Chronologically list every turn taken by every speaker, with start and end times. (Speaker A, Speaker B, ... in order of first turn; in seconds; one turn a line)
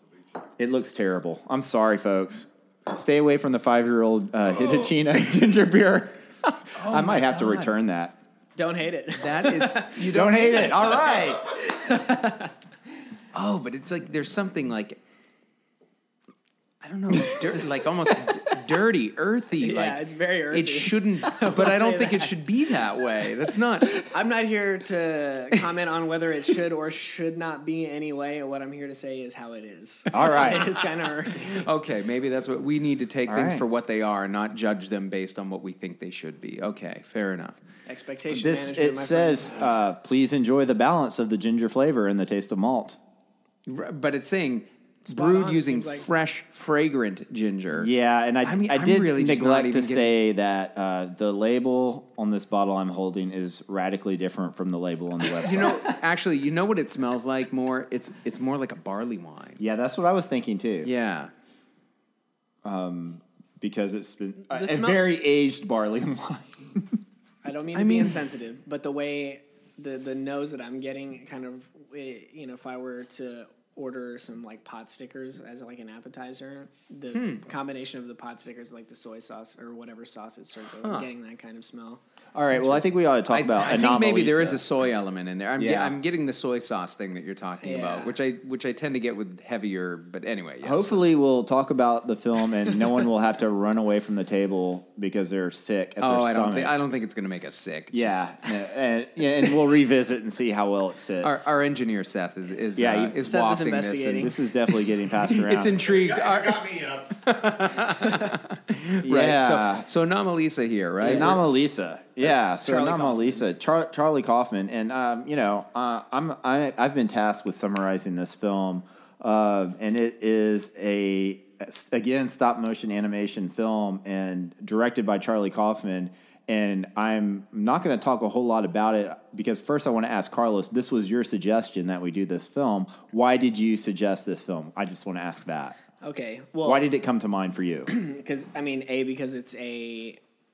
Speaker A: 0.6-6.2
Speaker B: 4.6-4.9
Speaker B: 6.6-7.8
Speaker A: 6.8-8.2
Speaker C: 8.6-12.5
Speaker B: 9.2-11.3
Speaker A: 10.0-11.5
Speaker B: 13.3-15.0
Speaker B: 16.8-24.1
Speaker C: 17.2-18.6
Speaker C: 19.6-22.4
Speaker C: 23.9-31.7
Speaker A: 30.1-30.7
Speaker B: 30.1-37.6
Speaker A: 33.3-33.6
Speaker C: 37.9-39.7
Speaker A: 38.3-43.0
Speaker B: 43.7-47.9
Speaker C: 45.1-46.1
Speaker A: 47.8-55.8
Speaker B: 48.4-50.1
Speaker B: 55.4-59.6
Speaker A: 59.6-60.9
Speaker B: 60.8-61.3
Speaker A: 62.6-67.0
Speaker C: 64.5-65.0
Speaker C: 67.4-82.0
Speaker B: 67.8-68.2
Speaker B: 77.1-77.5
Speaker B: 80.8-81.1
Speaker A: 82.3-84.6
Speaker B: 83.3-91.0
Speaker A: 85.6-86.0
Speaker C: 87.6-88.2
Speaker A: 90.6-96.9
Speaker B: 92.7-93.0
Speaker B: 96.0-98.8
Speaker A: 97.9-101.5
Speaker B: 99.4-99.7
Speaker B: 101.2-111.5
Speaker A: 102.8-103.2
Speaker C: 103.2-104.4
Speaker A: 104.2-105.9
Speaker A: 109.0-109.9
Speaker A: 111.0-135.8
Speaker C: 111.0-111.5
Speaker C: 112.6-113.5
Speaker C: 136.0-136.9
Speaker A: 136.6-137.9
Speaker C: 137.9-140.2